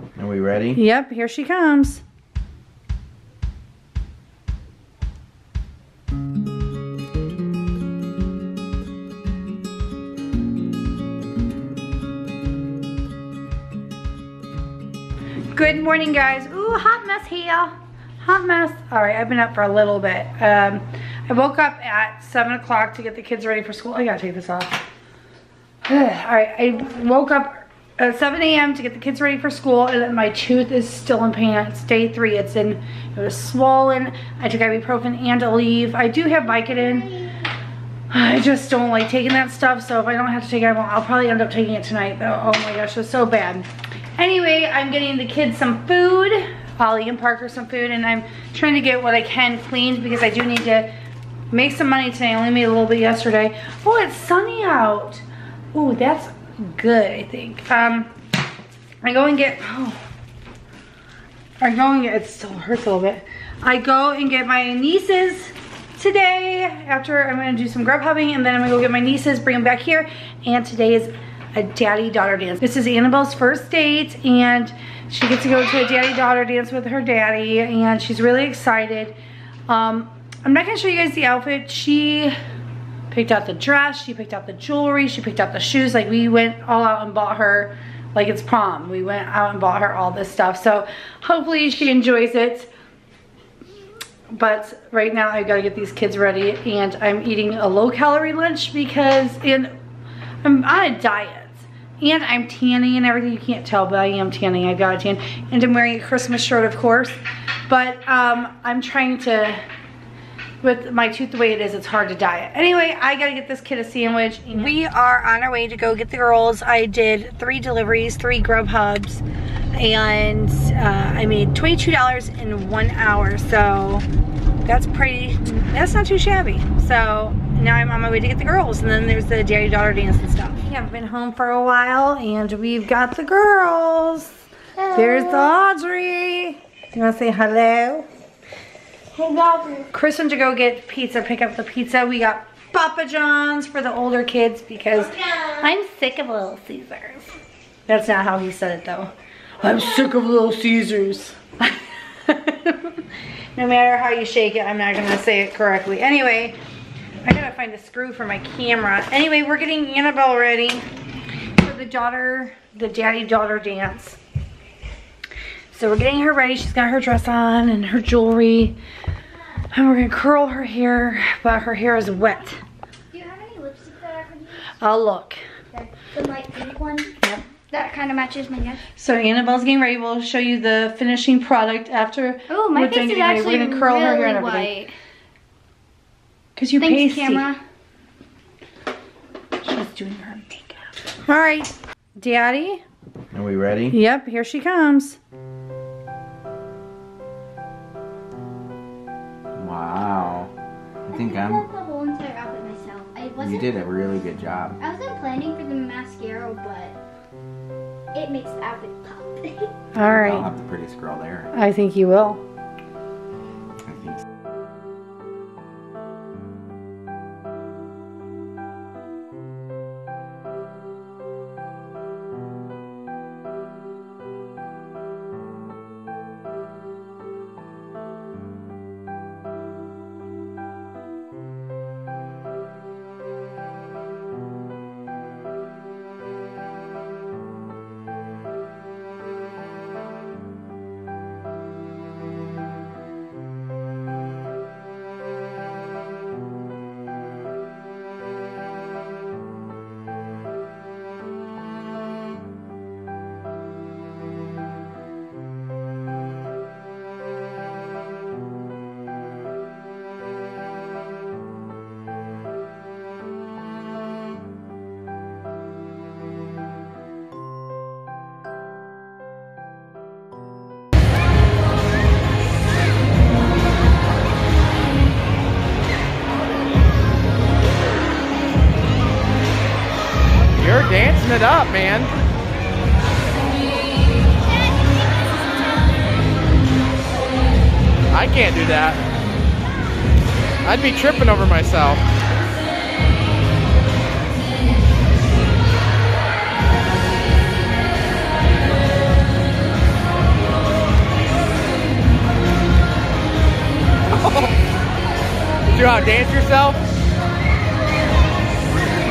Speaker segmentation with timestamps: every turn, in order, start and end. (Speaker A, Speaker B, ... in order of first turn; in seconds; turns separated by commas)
Speaker A: 0.2-0.8, Speaker B: 0.8-2.0, Speaker B: 15.5-24.9, Speaker B: 25.9-37.4, Speaker C: 36.6-37.4, Speaker B: 38.1-50.9, Speaker B: 51.5-58.1, Speaker B: 59.0-60.0, Speaker B: 61.6-79.2, Speaker B: 79.7-82.3, Speaker B: 83.1-92.7, Speaker B: 94.3-99.7, Speaker B: 100.4-109.6, Speaker B: 110.6-119.2, Speaker B: 119.7-124.1, Speaker B: 124.6-138.1, Speaker C: 139.2-139.7, Speaker B: 139.7-147.3, Speaker B: 147.9-153.0, Speaker B: 153.6-156.6, Speaker B: 157.2-160.8, Speaker B: 161.6-164.2, Speaker B: 165.7-168.8, Speaker B: 169.7-172.6, Speaker C: 173.1-174.8, Speaker B: 174.8-175.4, Speaker C: 175.7-177.2, Speaker C: 177.7-178.9, Speaker B: 179.0-184.8, Speaker C: 182.5-184.9, Speaker B: 186.6-187.5, Speaker C: 186.8-187.6, Speaker B: 189.6-192.8, Speaker A: 193.3-194.0, Speaker B: 193.9-195.2, Speaker A: 199.6-200.5, Speaker A: 201.1-201.7, Speaker C: 201.1-204.2, Speaker A: 203.4-204.8, Speaker C: 204.8-207.0, Speaker C: 208.1-209.7, Speaker B: 209.9-210.5, Speaker A: 210.0-211.5, Speaker B: 211.5-212.4, Speaker A: 213.8-214.2, Speaker D: 280.6-282.1, Speaker D: 288.1-289.0, Speaker D: 290.6-292.0, Speaker D: 304.1-304.4, Speaker D: 305.7-306.8